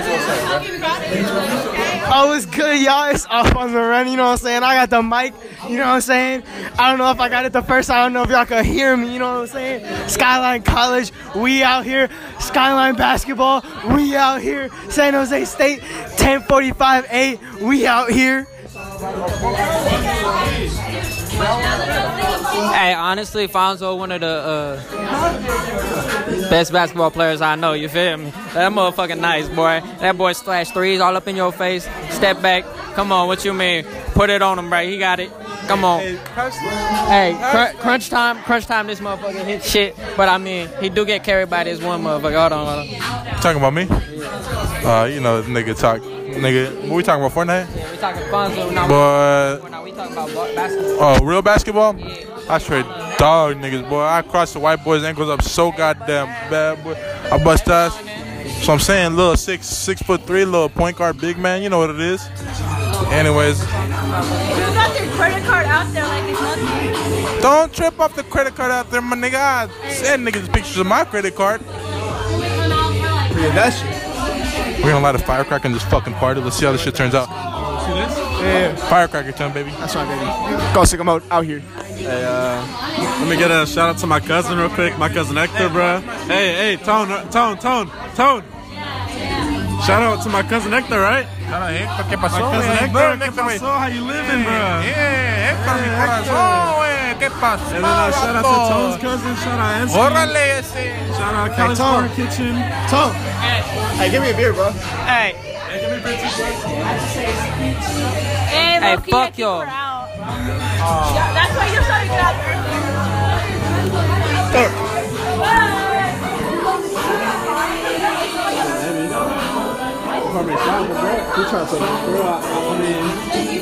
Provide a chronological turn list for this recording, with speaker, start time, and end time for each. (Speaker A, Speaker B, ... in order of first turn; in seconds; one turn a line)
Speaker A: 2.1-18.5
Speaker B: 22.7-24.8
Speaker B: 26.5-36.1
Speaker C: 35.7-36.6
Speaker B: 37.1-42.9
Speaker C: 37.4-38.0
Speaker C: 43.4-43.9
Speaker C: 44.8-47.7
Speaker B: 47.8-51.0
Speaker C: 48.8-49.6
Speaker C: 51.0-58.0
Speaker B: 57.7-58.1
Speaker C: 58.6-62.3
Speaker C: 63.1-63.7
Speaker D: 64.5-66.7
Speaker C: 67.4-71.6
Speaker E: 73.3-73.9
Speaker C: 74.8-77.3
Speaker F: 77.8-78.2
Speaker E: 78.4-78.8
Speaker C: 78.9-79.8
Speaker E: 79.8-81.7
Speaker F: 82.0-88.5
Speaker C: 85.5-86.8
Speaker F: 89.8-91.3
Speaker C: 91.5-99.1
Speaker F: 92.3-95.0
Speaker F: 95.5-96.8
Speaker F: 97.7-100.4
Speaker C: 99.9-101.1
Speaker F: 101.1-102.7
Speaker E: 101.5-102.1
Speaker E: 102.8-103.2
Speaker E: 104.0-104.8
Speaker B: 105.1-105.4
Speaker F: 105.7-106.7
Speaker D: 108.5-110.1
Speaker B: 108.8-109.7
Speaker D: 111.0-112.7
Speaker F: 118.6-119.2
Speaker F: 120.2-123.2